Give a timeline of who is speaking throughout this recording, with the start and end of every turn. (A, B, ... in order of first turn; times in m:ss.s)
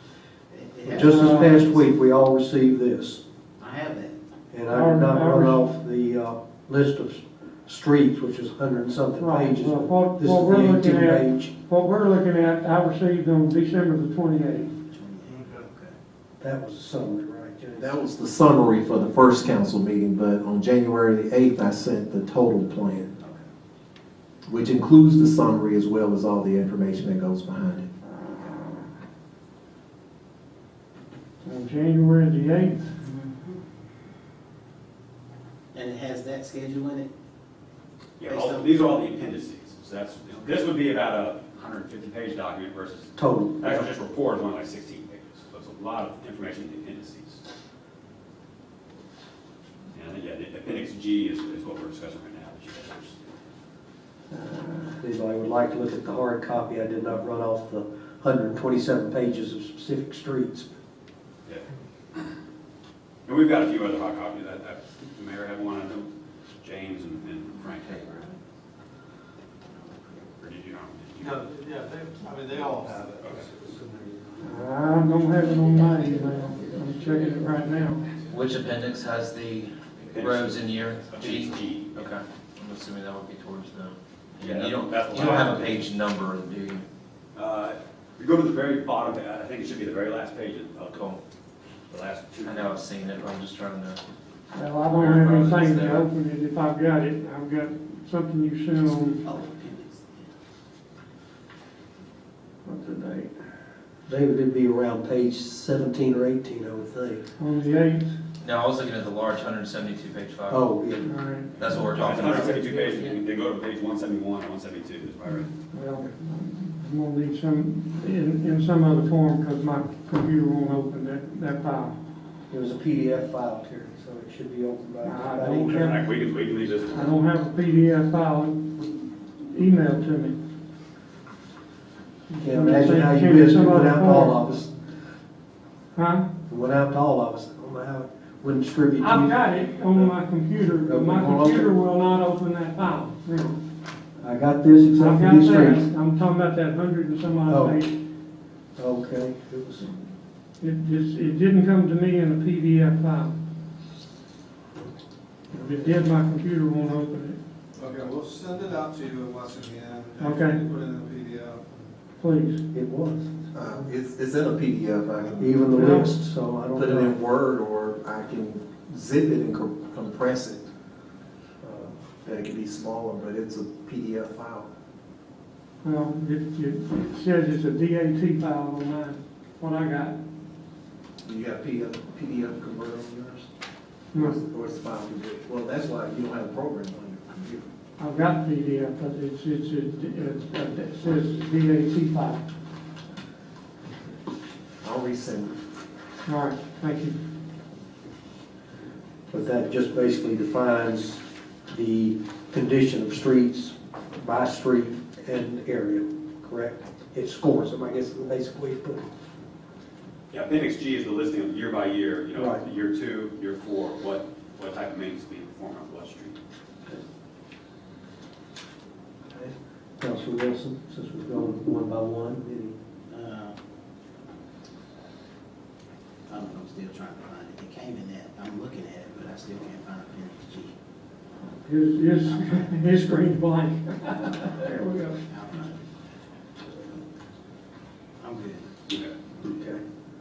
0:00.5-0:01.8 A
0:00.8-0:03.2 B
0:01.0-0:01.6 C
0:03.6-0:04.1 A
0:04.5-0:11.5 B
0:04.7-0:05.6 C
0:09.2-0:14.7 C
0:14.9-0:15.9 A
0:15.3-0:15.6 D
0:16.4-0:18.0 B
0:17.8-0:23.1 E
0:23.2-0:23.4 A
0:24.5-0:27.9 E
0:31.4-0:32.9 C
0:35.7-0:37.1 A
0:38.2-0:47.4 F
0:43.2-0:43.8 B
0:49.9-0:53.2 F
0:54.4-1:00.7 B
1:03.2-1:06.1 F
1:06.6-1:08.3 F
1:10.1-1:11.5 F
1:11.2-1:14.4 D
1:13.2-1:13.5 F
1:14.4-1:18.0 C
1:18.3-1:26.8 G
1:20.1-1:22.0 F
1:24.4-1:25.8 F
1:27.3-1:31.0 F
1:30.8-1:31.2 G
1:31.9-1:32.7 F
1:32.4-1:34.0 G
1:34.5-1:39.2 C
1:34.9-1:36.1 G
1:39.2-1:40.3 A
1:42.6-1:43.3 C
1:44.1-1:47.2 B
1:47.4-1:48.1 C
1:48.4-1:50.7 G
1:50.5-1:51.1 B
1:51.0-1:51.5 C
1:51.6-1:52.8 G
1:51.7-1:55.5 F
1:55.7-2:02.0 C
2:02.5-2:06.0 B
2:05.0-2:06.0 C
2:05.7-2:07.1 F
2:06.9-2:08.8 C
2:09.4-2:10.4 C
2:12.3-2:14.4 C
2:12.4-2:14.7 B
2:15.9-2:16.3 C
2:16.5-2:19.4 B
2:19.0-2:23.6 C
2:20.8-2:21.7 B
2:24.2-2:25.9 B
2:25.0-2:27.9 C
2:27.5-2:27.8 B
2:28.8-2:29.9 B
2:30.6-2:33.3 C
2:35.5-2:37.4 C
2:37.8-2:41.8 D
2:40.2-2:40.6 C
2:42.2-2:42.6 C
2:42.7-2:43.2 B
2:43.5-2:45.5 E
2:45.3-2:47.1 B
2:45.7-2:46.1 C
2:46.8-2:50.6 E
2:51.6-2:52.0 B
2:52.2-2:54.7 E
2:55.8-3:00.2 C
3:01.2-3:03.4 E
3:04.1-3:07.7 E
3:08.0-3:12.4 C
3:14.8-3:15.5 E
3:16.2-3:17.2 C
3:19.3-3:29.1 B
3:30.3-3:36.4 F
3:32.3-3:32.6 B
3:39.3-3:42.7 B
3:43.1-3:43.6 A
3:46.3-3:50.7 A
3:51.6-3:55.2 C
3:55.3-3:55.7 A
3:58.2-3:58.6 A
3:59.4-3:59.8 B